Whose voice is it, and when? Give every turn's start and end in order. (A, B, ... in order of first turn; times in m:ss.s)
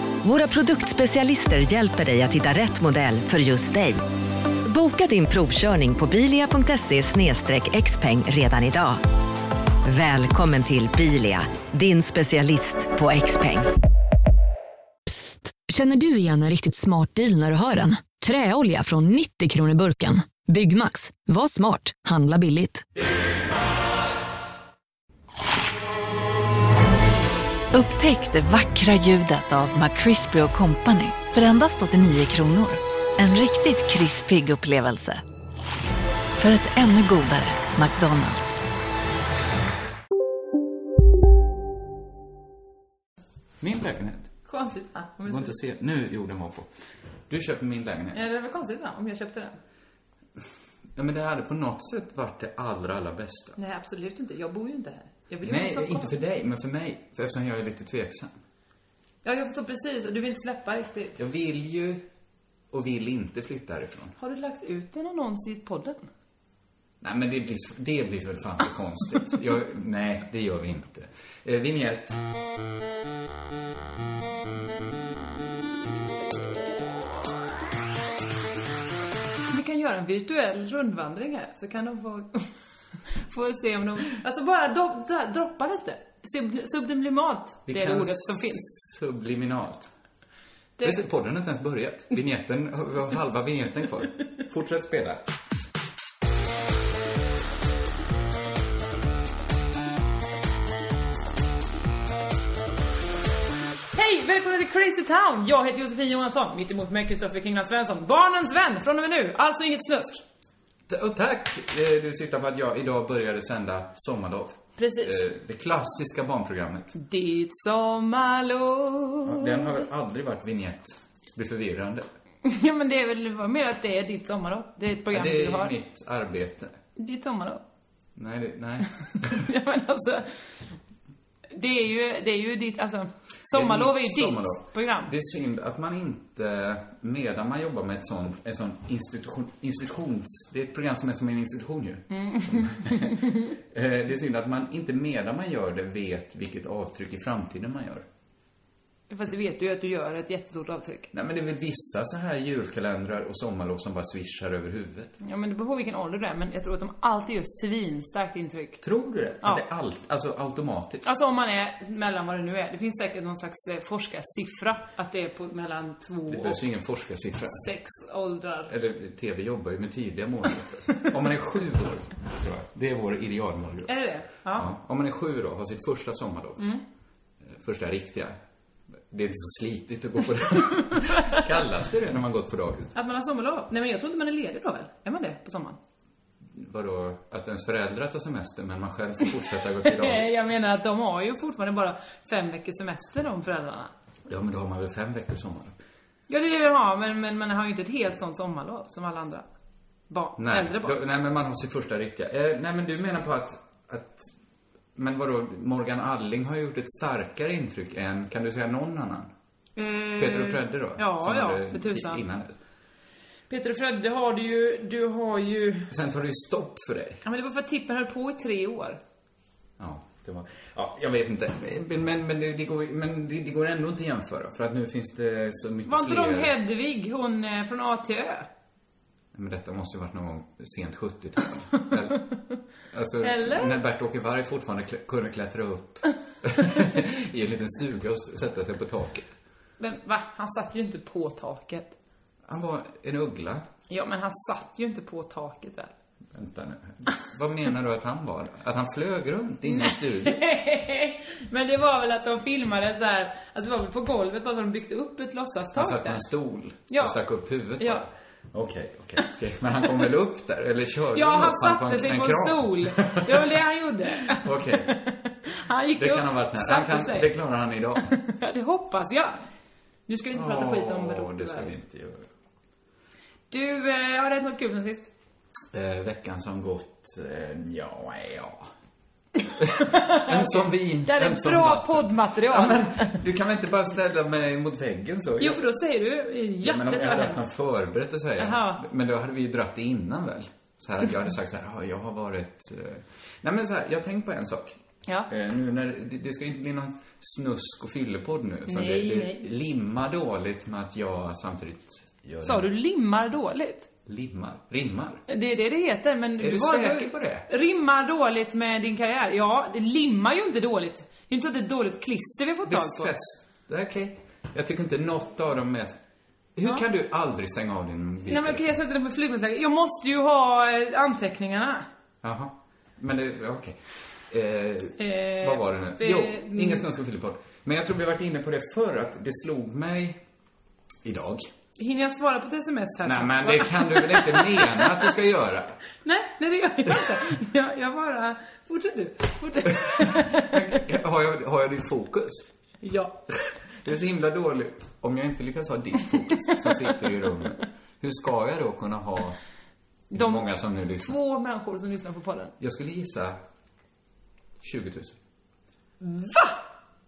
0:00.2-0:04.0 A
0:04.7-0:09.0 A
0:09.9-0:13.7 A
0:15.1-0:22.8 B
0:27.7-0:35.2 C
0:36.4-0:38.6 C
0:43.6-0:44.3 D
0:44.5-0:45.6 E
0:45.2-0:46.7 D
0:47.3-0:48.2 D
0:48.1-0:49.6 E
0:51.0-0:53.6 D
0:53.6-0:56.2 E
0:55.4-0:58.4 D
0:59.2-1:01.2 E
1:01.2-1:02.0 D
1:02.7-1:04.2 D
1:04.2-1:06.1 E
1:07.0-1:12.2 D
1:19.5-1:22.5 E
1:23.1-1:28.7 E
1:27.7-1:29.9 D
1:30.8-1:31.0 E
1:30.8-1:35.2 D
1:43.9-1:50.2 E
1:50.9-1:56.9 D
1:54.8-1:55.2 E
1:56.9-1:59.9 E
1:59.2-2:02.1 D
2:02.4-2:05.8 E
2:05.1-2:06.8 D
2:07.0-2:07.6 E
2:08.2-2:09.4 D
2:09.2-2:10.4 E
2:11.5-2:15.1 E
2:13.5-2:28.0 D
2:22.1-2:23.5 E
2:29.1-2:31.1 E
2:31.1-2:35.1 D
2:35.2-2:38.8 E
2:38.8-2:41.1 D
2:41.0-2:46.6 E
2:46.3-2:47.7 D
2:47.5-2:48.7 E
2:48.7-2:53.9 D
2:53.9-2:54.7 E
2:54.5-2:56.7 D
2:57.5-2:58.4 D
2:59.1-3:03.0 D
3:03.0-3:05.8 E
3:06.5-3:10.4 D
3:09.8-3:13.9 E
3:14.3-3:15.8 D
3:16.3-3:19.4 E
3:20.1-3:21.0 E
3:20.4-3:24.3 D
3:25.0-3:29.3 D
3:29.8-3:32.2 E
3:30.2-3:32.6 D
3:33.5-3:35.9 E
3:35.9-3:37.2 D
3:37.2-3:39.0 E
3:39.8-3:46.5 D
3:45.9-3:48.5 E
3:49.3-3:52.2 D
3:52.9-3:59.3 D
3:53.2-3:53.8 E
3:59.8-4:02.0 E
4:02.5-4:03.6 D
4:03.9-4:05.9 E
4:06.3-4:10.4 D
4:09.7-4:16.2 E
4:15.8-4:23.6 D
4:16.9-4:17.2 E
4:17.8-4:18.0 E
4:21.1-4:27.3 E
4:24.2-4:24.9 D
4:26.0-4:28.1 D
4:28.0-4:29.4 E
4:30.1-4:31.8 E
4:30.3-4:32.3 D
4:33.5-4:35.1 E
4:35.7-4:38.7 D
4:39.6-4:45.6 D
4:39.8-4:43.2 E
4:45.4-4:47.4 E
4:46.6-4:54.8 D
4:48.4-4:48.8 E
4:55.3-5:02.7 D
4:58.7-4:59.4 E
5:02.4-5:03.9 E
5:04.1-5:05.2 D
5:05.3-5:13.1 E
5:06.4-5:07.5 D
5:12.6-5:16.0 D
5:16.6-5:18.6 D
5:18.3-5:21.9 E
5:22.2-5:30.2 D
5:25.0-5:26.9 E
5:31.0-5:31.5 D
5:31.8-5:35.1 E
5:33.0-5:35.8 D
5:36.0-5:40.6 E
5:39.7-5:42.5 D
5:42.8-5:43.2 E
5:43.8-5:49.4 D
5:50.1-5:51.2 D
5:50.1-5:52.5 E
5:52.6-5:53.4 D
5:54.6-5:55.2 D
5:56.0-5:56.6 E